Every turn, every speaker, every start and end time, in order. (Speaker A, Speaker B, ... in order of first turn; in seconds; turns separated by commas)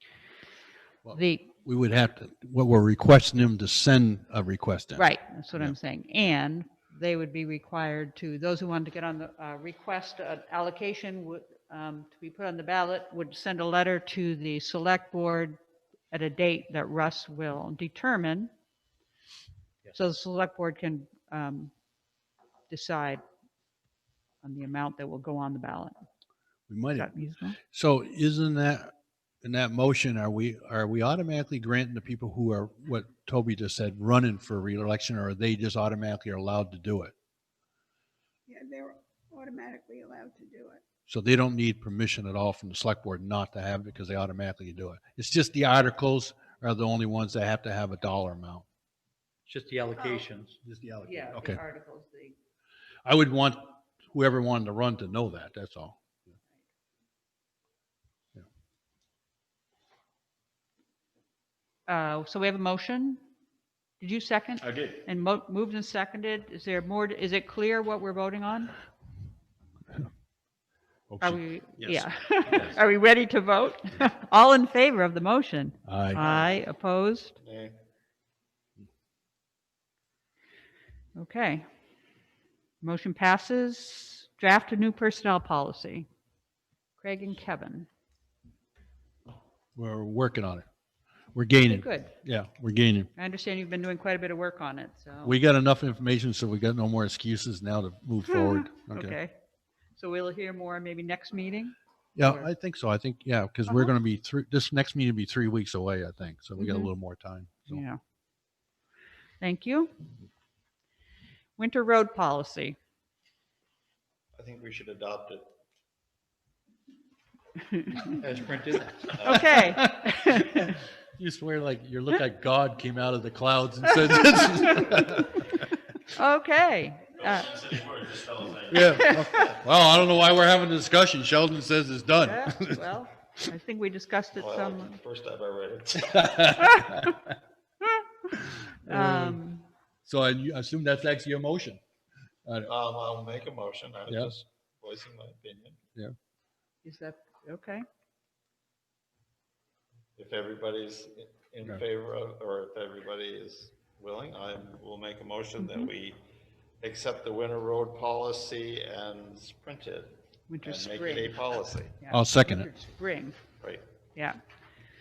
Speaker A: 1.1-5.7, Speaker B: 1.1-1.5, Speaker B: 5.0-15.6, Speaker B: 16.1-18.5, Speaker B: 19.9-21.7, Speaker B: 22.7-23.2, Speaker B: 24.4-25.9, Speaker A: 26.7-27.1, Speaker B: 26.9-27.6, Speaker A: 27.6-37.1, Speaker C: 38.5-40.8, Speaker A: 41.1-48.7, Speaker D: 49.5-50.6, Speaker A: 50.6-51.6, Speaker B: 51.0-52.4, Speaker A: 53.0-56.0, Speaker B: 61.9-63.2, Speaker B: 64.0-68.8, Speaker A: 71.1-71.4, Speaker B: 71.2-77.4, Speaker A: 75.9-76.3, Speaker E: 76.3-76.5, Speaker E: 77.4-77.8, Speaker B: 81.2-81.6, Speaker B: 82.8-86.1, Speaker B: 87.0-87.9, Speaker A: 89.8-90.6, Speaker A: 91.3-93.1, Speaker B: 91.7-92.2, Speaker B: 93.2-95.4, Speaker A: 95.2-99.2, Speaker B: 98.3-99.3, Speaker B: 100.0-102.5, Speaker A: 102.2-107.8, Speaker B: 106.6-106.9, Speaker B: 107.7-108.0, Speaker B: 109.4-110.0, Speaker B: 111.6-112.8, Speaker E: 114.4-115.4, Speaker B: 117.6-118.2, Speaker D: 118.1-119.2, Speaker E: 119.2-119.5, Speaker B: 119.2-120.8, Speaker A: 119.6-120.7, Speaker A: 121.2-125.5, Speaker B: 124.0-124.9, Speaker B: 125.5-127.9, Speaker E: 127.2-128.8, Speaker A: 128.7-132.9, Speaker B: 128.9-129.5, Speaker B: 132.2-135.0, Speaker E: 134.4-136.3, Speaker A: 136.0-137.3, Speaker B: 136.6-137.1, Speaker B: 138.8-139.7, Speaker A: 138.9-139.4, Speaker A: 140.1-141.8, Speaker A: 142.4-142.7, Speaker E: 142.7-145.8, Speaker B: 146.8-147.8, Speaker E: 150.2-156.2, Speaker B: 155.6-155.9, Speaker E: 156.8-162.1, Speaker B: 160.5-161.4, Speaker B: 162.0-163.4, Speaker A: 162.1-162.7